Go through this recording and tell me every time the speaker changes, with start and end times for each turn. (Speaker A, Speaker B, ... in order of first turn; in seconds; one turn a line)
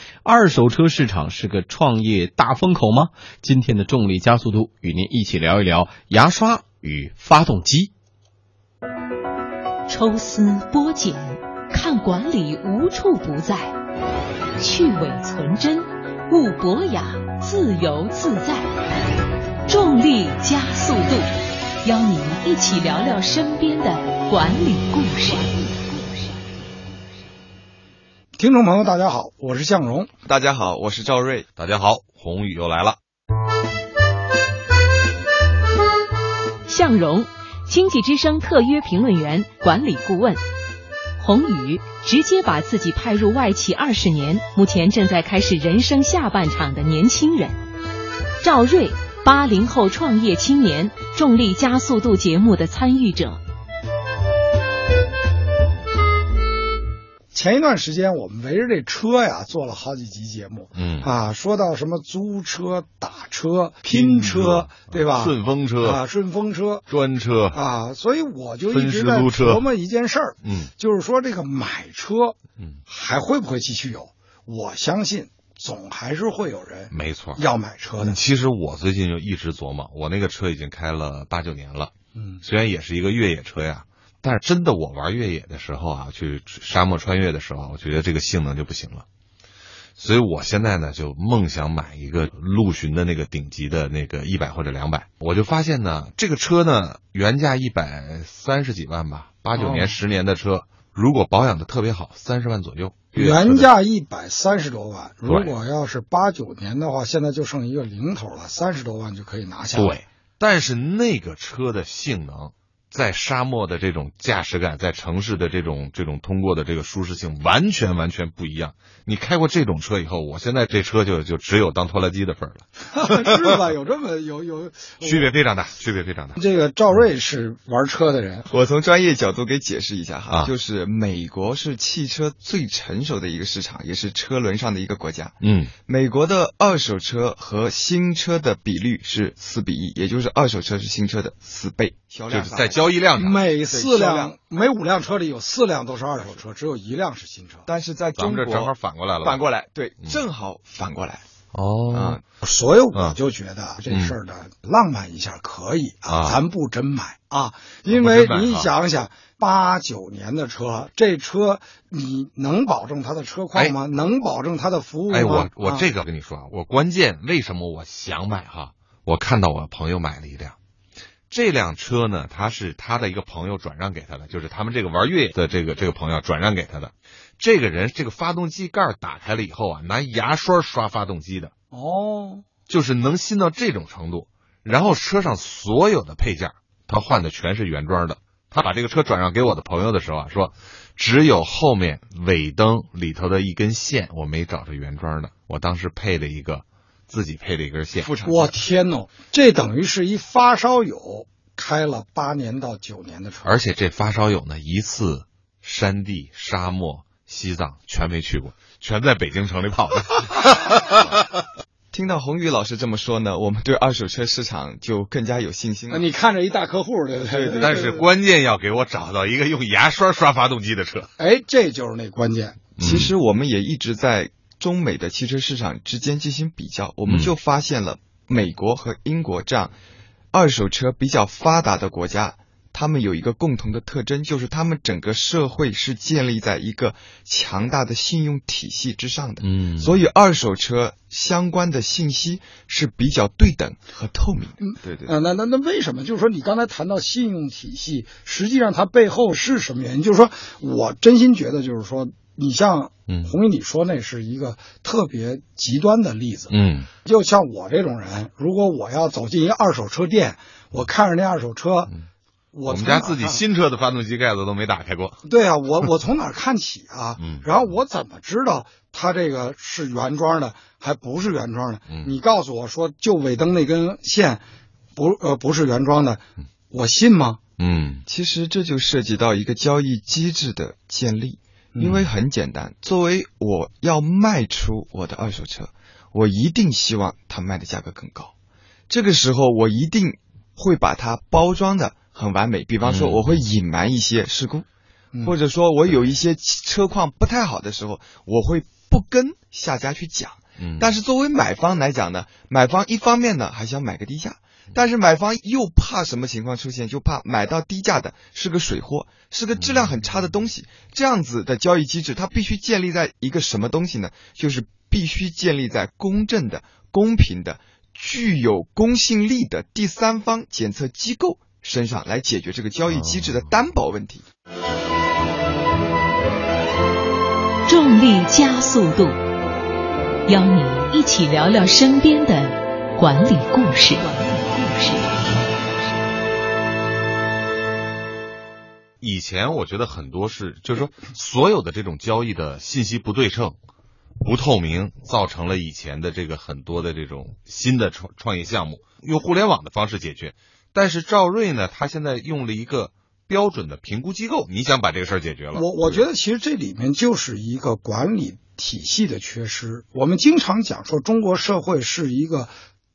Speaker A: 0.2-7.9
Speaker B: 9.9-13.7
Speaker B: 14.6-18.7
Speaker B: 19.7-21.3
Speaker B: 21.8-26.5
Speaker C: 28.4-30.1
Speaker D: 30.2-31.5
Speaker E: 31.6-33.0
Speaker B: 36.7-40.4
Speaker B: 41.2-47.6
Speaker B: 48.4-53.4
Speaker C: 57.3-66.9
Speaker E: 60.8-61.1
Speaker E: 63.9-66.0
Speaker E: 66.9-67.6
Speaker C: 67.5-72.3
Speaker E: 68.7-69.6
Speaker E: 70.4-70.7
Speaker C: 72.9-78.2
Speaker E: 76.9-77.4
Speaker E: 78.0-81.9
Speaker C: 82.1-82.4
Speaker E: 82.4-89.0
Speaker E: 90.0-103.7
Speaker C: 99.5-100.0
Speaker C: 103.1-110.0
Speaker E: 105.2-105.6
Speaker E: 109.7-123.6
Speaker C: 122.9-125.3
Speaker E: 125.0-126.4
Speaker C: 126.3-128.5
Speaker D: 128.5-135.3
Speaker E: 135.4-135.7
Speaker D: 135.8-142.8
Speaker E: 142.3-143.4
Speaker C: 143.2-147.7
Speaker D: 143.7-144.3
Speaker D: 147.7-151.2
Speaker E: 148.2-149.4
Speaker E: 151.5-152.2
Speaker D: 151.9-152.2
Speaker C: 152.4-165.9
Speaker E: 153.9-154.2
Speaker E: 156.1-156.4
Speaker E: 157.9-158.7
Speaker E: 165.1-170.6
Speaker E: 171.3-181.5
Speaker C: 181.7-182.4
Speaker E: 182.7-198.2
Speaker C: 198.2-203.6
Speaker E: 203.4-211.2
Speaker D: 211.9-216.0
Speaker C: 215.9-218.0
Speaker D: 217.3-217.9
Speaker E: 217.6-221.1
Speaker C: 221.2-222.6
Speaker E: 222.8-223.1
Speaker D: 222.8-229.8
Speaker D: 230.3-245.1
Speaker E: 239.4-240.0
Speaker C: 244.6-261.9
Speaker E: 253.1-253.3
Speaker E: 256.5-256.9
Speaker C: 262.5-263.4
Speaker E: 262.6-265.2
Speaker C: 265.2-274.4
Speaker E: 267.2-267.6
Speaker C: 274.9-277.4
Speaker E: 277.6-278.0
Speaker D: 278.1-288.3
Speaker E: 281.8-282.1
Speaker D: 288.9-294.6
Speaker E: 292.8-293.4
Speaker D: 295.2-324.2
Speaker E: 300.6-300.9
Speaker E: 309.6-310.0
Speaker E: 322.9-323.3
Speaker B: 327.6-329.2
Speaker B: 330.3-335.4
Speaker E: 339.0-343.6
Speaker E: 344.2-356.0
Speaker C: 355.5-362.5